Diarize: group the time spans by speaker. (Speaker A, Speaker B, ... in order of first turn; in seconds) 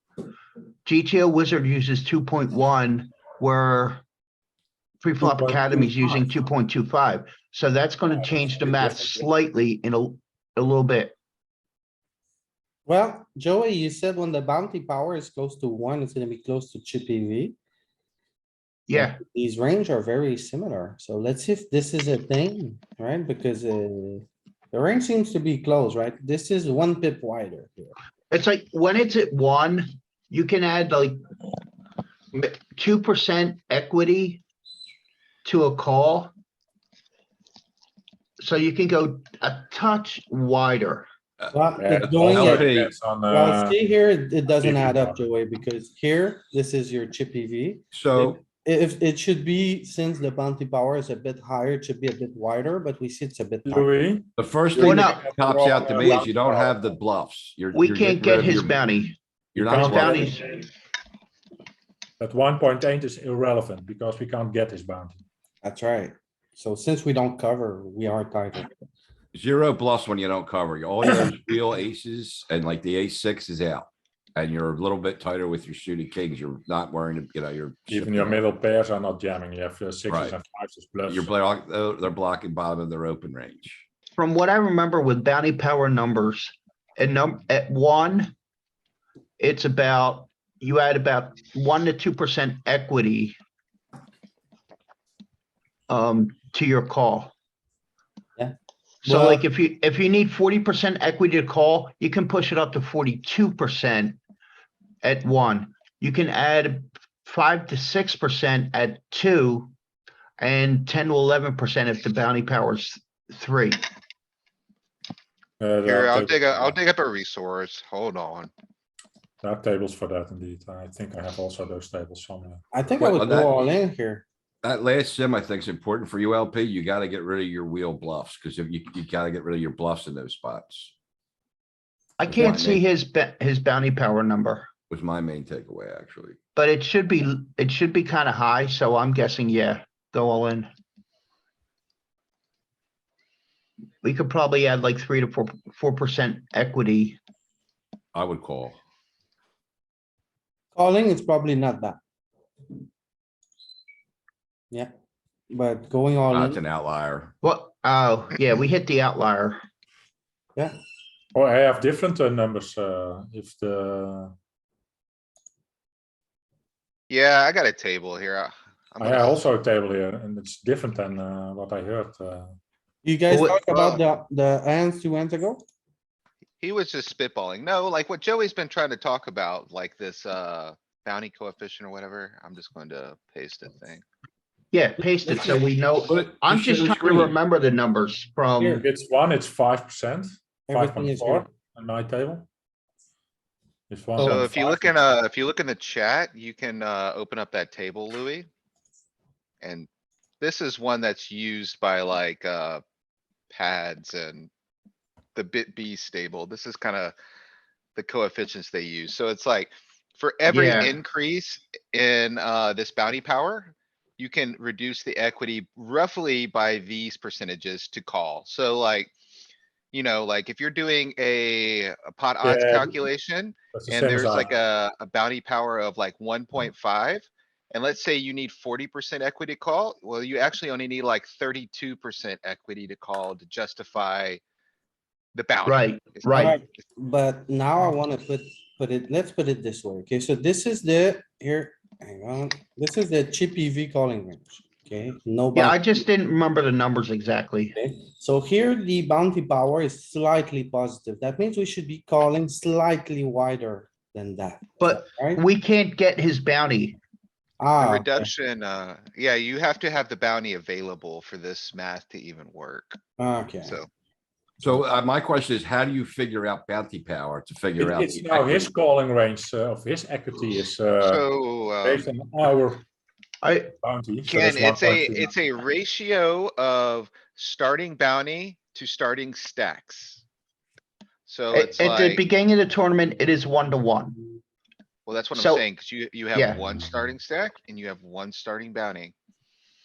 Speaker A: 0.9-4.0, 5.0-11.2, 18.9-19.2, 28.3-31.2, 32.3-34.4, 35.5-36.3, 38.4-41.1, 54.8-55.2, 57.7-59.2, 59.8-60.5, 84.2-88.3, 89.4-93.4, 95.9-97.3, 99.0-104.2, 105.0-109.7, 110.4-113.8, 132.2-134.7, 136.6-140.7, 144.0-147.2, 157.4-159.6, 173.3-173.6, 184.7-188.8, 194.2-194.9, 210.5-210.9, 235.7-236.6, 245.5-247.8, 254.8-257.0, 273.4-273.7, 281.5-284.2, 285.4-285.6, 286.4-286.6
Speaker B: 5.2-6.2, 41.8-43.8, 44.5-45.2, 53.7-56.8, 59.6-60.6, 62.2-65.2, 77.9-81.3, 115.6-116.7, 119.4-122.6, 161.3-164.3, 169.0-172.5, 188.6-192.5, 193.9-194.7, 222.4-223.0, 223.7-224.5, 267.8-271.2, 271.8-272.9, 273.8-275.3
Speaker C: 12.9-17.6, 18.9-27.9, 41.5-42.7, 43.3-53.9, 65.6-68.7, 99.0-99.4, 122.7-124.2, 150.8-152.0, 155.5-156.6, 173.0-175.6, 185.2-185.7, 190.7-191.5, 236.3-246.0, 247.8-255.4, 257.6-258.3, 263.2-263.8
Speaker D: 42.0-42.9, 47.9-48.4, 54.4-58.8, 59.5-60.4, 69.3-78.4, 80.1-80.3, 81.1-83.9, 123.0-123.6, 124.6-130.9, 132.3-132.8, 134.9-136.4, 148.1-148.8, 156.3-157.3, 186.1-187.3, 264.6-268.7
Speaker E: 115.8-118.5, 167.1-169.4, 173.7-173.9, 176.6-184.0, 194.2-198.5, 199.6-199.9, 200.4-202.8, 203.5-204.5, 205.3-207.2, 208.0-219.1, 219.9-234.4, 235.3-236.5, 257.8-263.0, 271.0-272.1, 274.3-280.2, 281.3-282.2, 285.1-289.1